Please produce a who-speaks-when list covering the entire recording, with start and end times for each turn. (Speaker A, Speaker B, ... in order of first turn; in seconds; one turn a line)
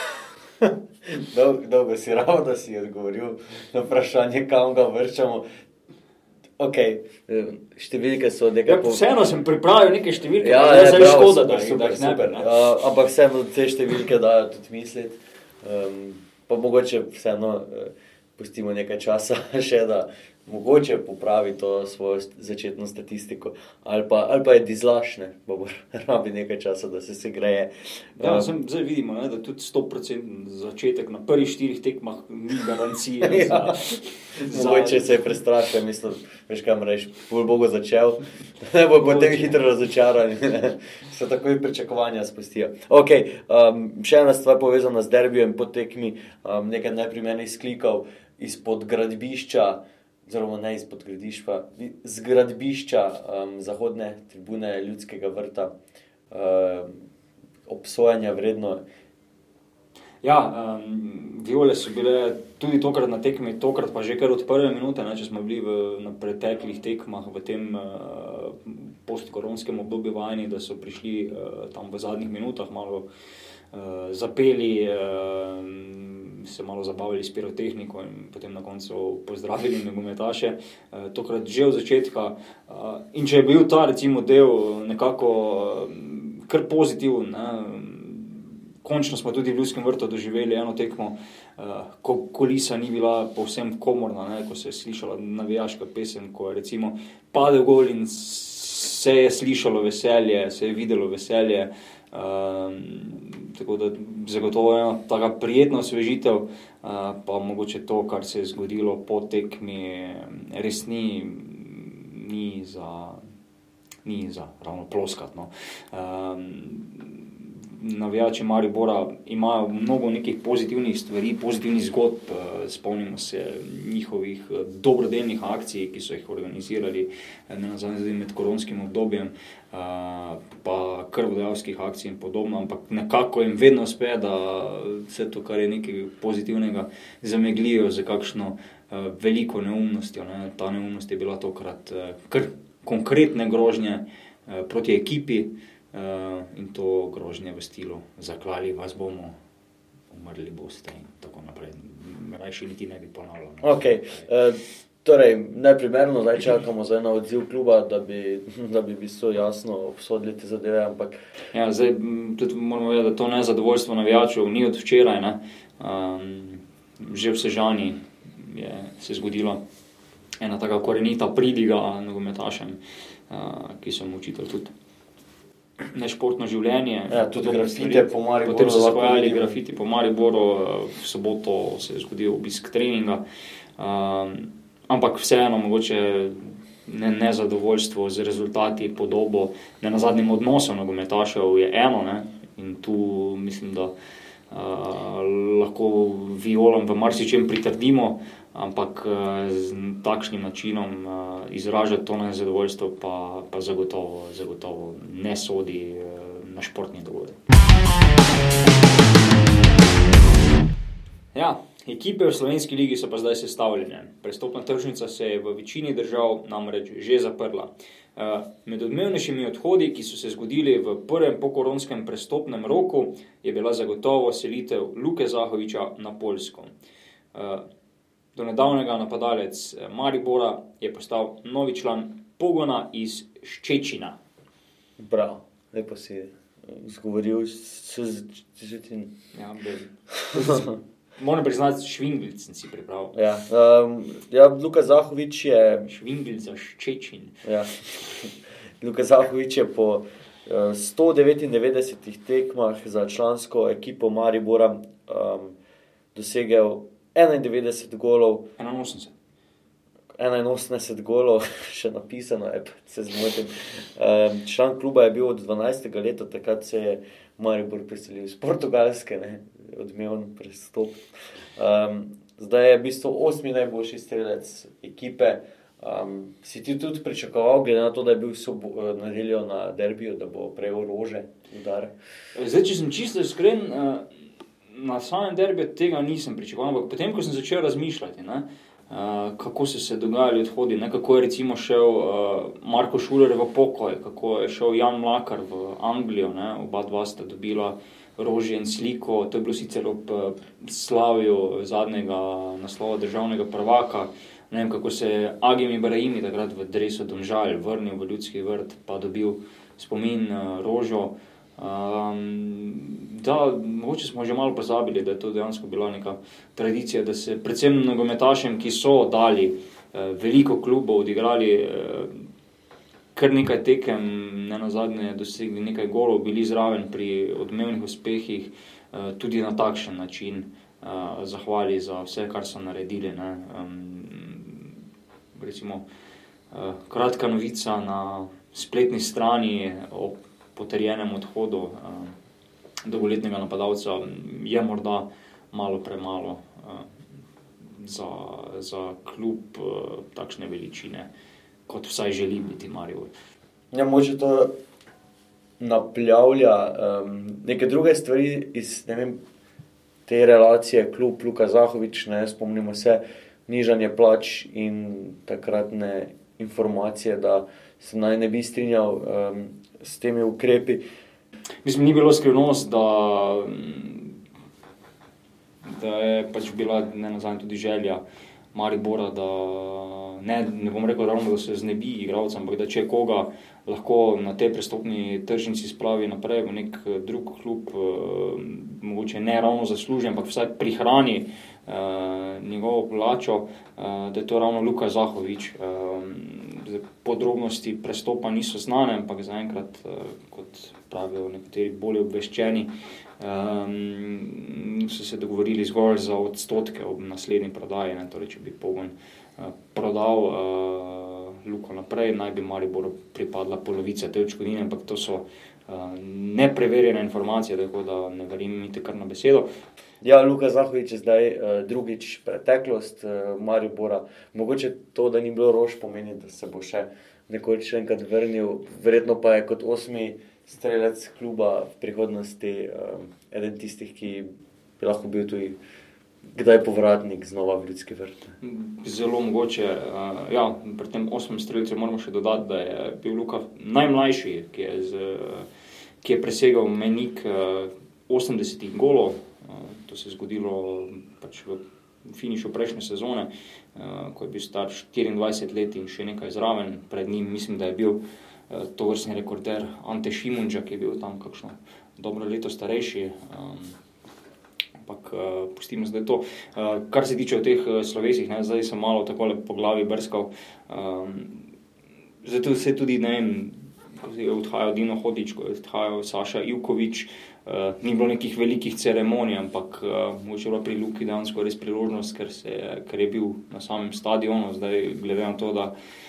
Speaker A: 0.6-5.5
Speaker A: 6.6-9.0
Speaker B: 8.7-12.5
Speaker A: 10.4-28.5
Speaker B: 28.2-35.3
Speaker A: 33.2-33.7
Speaker A: 34.4-55.7
Speaker B: 39.0-39.6
Speaker A: 56.3-57.0
Speaker A: 57.7-58.8
Speaker B: 60.2-73.0
Speaker B: 73.7-113.2
Speaker B: 114.0-149.3
Speaker B: 150.1-154.3
Speaker A: 153.6-161.2
Speaker B: 161.5-169.6
Speaker B: 170.4-172.8
Speaker B: 173.3-174.7
Speaker B: 175.9-183.2
Speaker A: 177.1-179.6
Speaker B: 183.8-193.9
Speaker B: 194.5-207.4
Speaker B: 211.3-226.7
Speaker B: 227.3-227.6
Speaker B: 228.3-234.2
Speaker A: 235.0-239.1
Speaker B: 239.3-243.1
Speaker A: 240.2-240.8
Speaker A: 243.1-245.9
Speaker B: 245.9-247.3
Speaker A: 247.4-255.6
Speaker A: 256.1-258.5
Speaker B: 258.6-259.1
Speaker A: 260.2-271.0
Speaker A: 271.5-281.9
Speaker B: 282.3-284.1
Speaker B: 284.7-322.3
Speaker B: 323.1-334.8
Speaker B: 335.3-335.8
Speaker B: 336.5-342.1
Speaker B: 342.8-346.9
Speaker B: 347.6-351.1
Speaker B: 351.7-353.1
Speaker A: 353.7-354.5
Speaker A: 355.6-359.2
Speaker A: 360.1-370.8
Speaker B: 371.6-374.2
Speaker B: 375.6-378.0
Speaker B: 378.5-419.5
Speaker A: 420.0-435.6
Speaker A: 436.3-438.3
Speaker B: 438.4-445.5
Speaker B: 446.0-463.8
Speaker B: 464.8-471.4
Speaker B: 472.2-485.7